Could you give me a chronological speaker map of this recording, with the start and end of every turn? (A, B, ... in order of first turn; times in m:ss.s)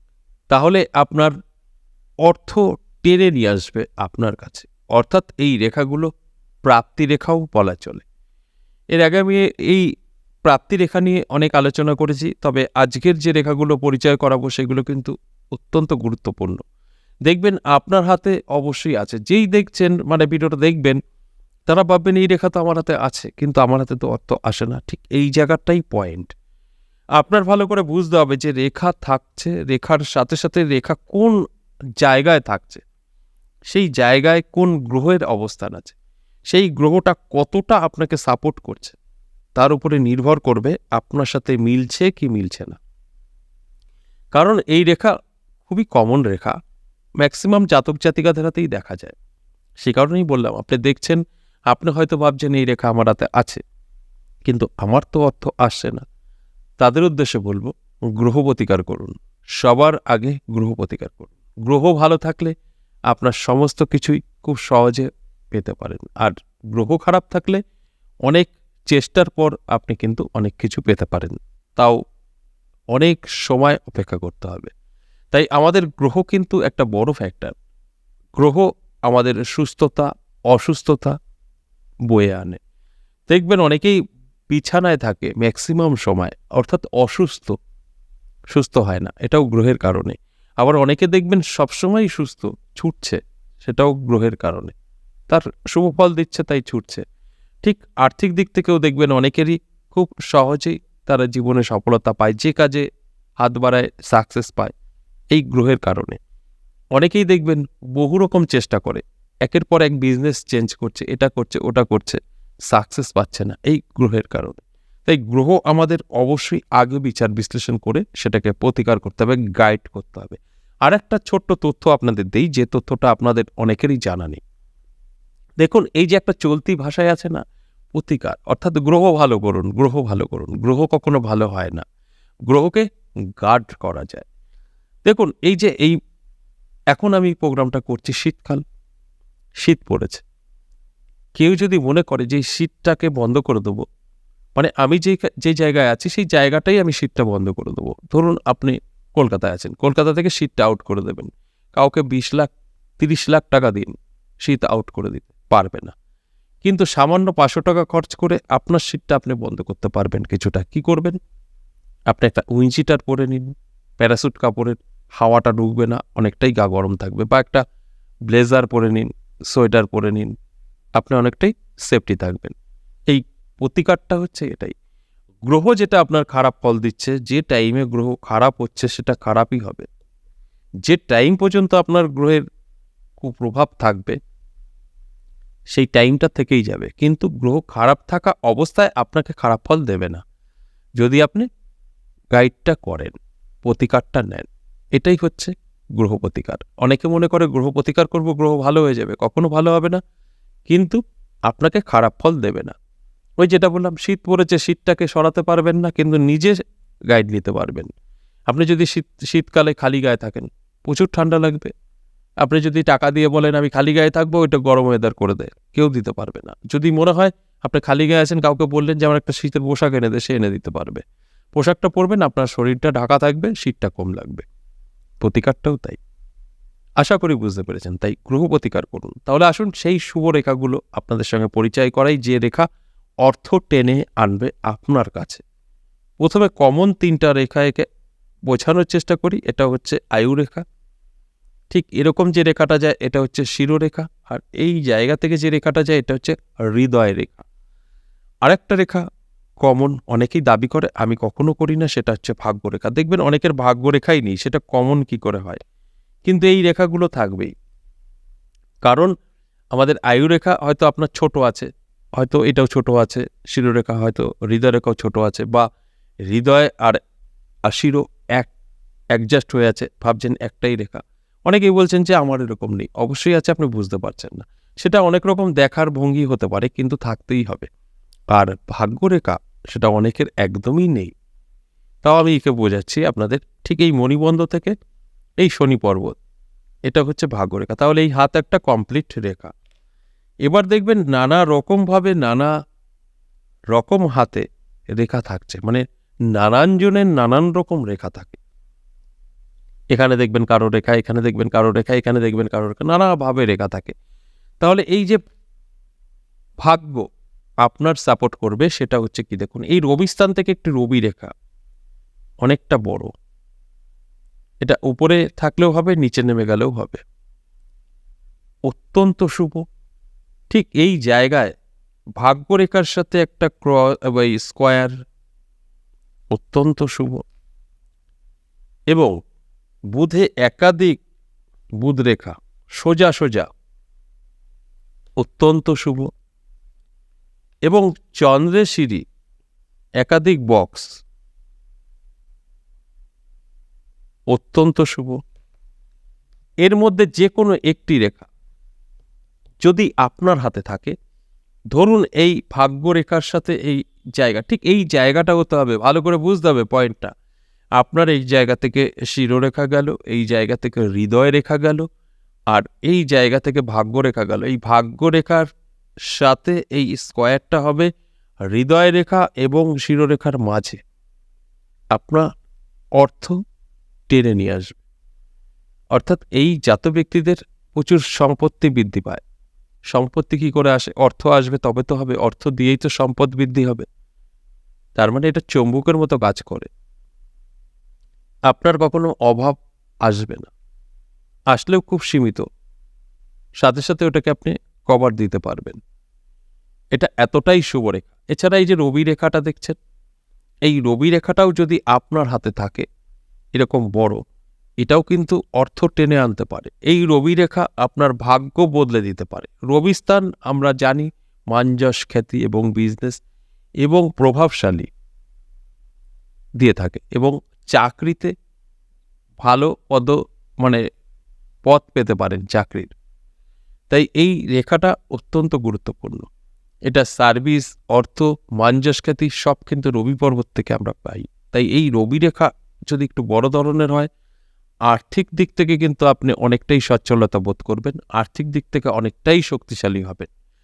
0:00.5-0:01.3 A
0:02.2-0:06.1 A
0:06.6-0:08.0 A
0:09.0-0:09.8 A
0:10.4-0:16.6 A
0:17.2-0:21.0 A
0:21.7-0:26.3 A
0:27.2-0:31.4 A
0:32.0-0:32.8 A
0:33.7-0:35.9 A
0:36.5-0:39.0 A
0:39.6-0:42.8 A
0:44.3-0:45.1 A
0:45.6-0:46.5 A
0:47.2-0:49.1 A
0:49.8-0:53.6 A
0:54.4-0:56.0 A
0:56.8-1:02.5 A
1:03.1-1:07.6 A
1:08.2-1:12.0 A
1:12.9-1:14.7 A
1:15.3-1:17.5 A
1:18.4-1:21.2 A
1:22.1-1:22.6 A
1:23.3-1:24.0 A
1:24.5-1:27.6 A
1:28.5-1:34.7 A
1:35.3-1:37.0 A
1:37.6-1:42.8 A
1:43.4-1:44.7 A
1:45.3-1:46.2 A
1:47.0-2:04.4 A
2:05.6-2:07.4 A
2:07.9-2:11.8 A
2:12.5-2:12.8 A
2:13.4-2:14.2 A
2:15.0-2:16.0 A
2:16.9-2:18.6 A
2:19.6-2:20.2 A
2:21.4-2:23.8 A
2:24.6-2:35.9 A
2:36.6-2:41.2 A
2:42.1-2:47.6 A
2:48.3-2:50.3 A
2:51.0-2:52.5 A
2:53.1-2:54.7 A
2:55.5-2:59.9 A
3:00.8-3:02.4 A
3:03.2-3:04.2 A
3:05.7-3:10.2 A
3:11.0-3:11.5 A
3:12.3-3:20.0 A
3:20.7-3:22.7 A
3:23.4-3:27.9 A
3:28.5-3:31.7 A
3:32.4-3:41.0 A
3:41.5-3:44.4 A
3:45.2-3:46.0 A
3:47.0-3:52.7 A
3:53.2-3:55.4 A
3:56.2-3:57.8 A
3:58.5-4:00.6 A
4:01.7-4:07.4 A
4:08.4-4:09.0 A
4:09.6-4:15.6 A
4:16.2-4:17.5 A
4:18.8-4:19.1 A
4:19.7-4:25.7 A
4:26.3-4:27.0 A
4:27.7-4:28.5 A
4:29.1-4:37.7 A
4:38.3-4:41.1 A
4:42.0-4:44.8 A
4:45.4-4:46.2 A
4:46.9-4:49.5 A
4:50.4-4:52.5 A
4:53.7-4:54.4 A
4:55.0-4:58.4 A
4:59.9-5:03.9 A
5:04.6-5:05.2 A
5:06.6-5:07.1 A
5:07.6-5:11.3 A
5:12.4-5:13.1 A
5:14.6-5:17.0 A
5:18.7-5:19.6 A
5:20.5-5:21.5 A
5:22.2-5:24.9 A
5:26.3-5:27.2 A
5:28.9-5:29.2 A
5:29.9-5:31.0 A
5:31.8-5:33.5 A
5:35.2-5:36.1 A
5:37.7-5:39.0 A
5:40.0-5:41.0 A
5:44.3-5:45.2 A
5:46.6-5:48.3 A
5:49.6-5:50.9 A
5:51.7-5:57.1 A
5:57.8-6:01.9 A
6:02.5-6:05.5 A
6:06.1-6:07.9 A
6:08.5-6:10.8 A
6:11.9-6:12.2 A
6:13.0-6:13.3 A
6:14.1-6:14.8 A
6:15.9-6:19.2 A
6:19.9-6:23.8 A
6:25.0-6:26.7 A
6:28.5-6:30.5 A
6:31.5-6:32.4 A
6:33.6-6:35.8 A
6:36.9-6:39.8 A
6:40.6-6:42.8 A
6:43.5-6:44.2 A
6:44.8-6:53.2 A
6:53.8-6:54.9 A
6:56.6-6:58.3 A
6:59.4-7:00.8 A
7:01.6-7:02.9 A
7:03.9-7:06.3 A
7:06.9-7:14.1 A
7:14.9-7:20.3 A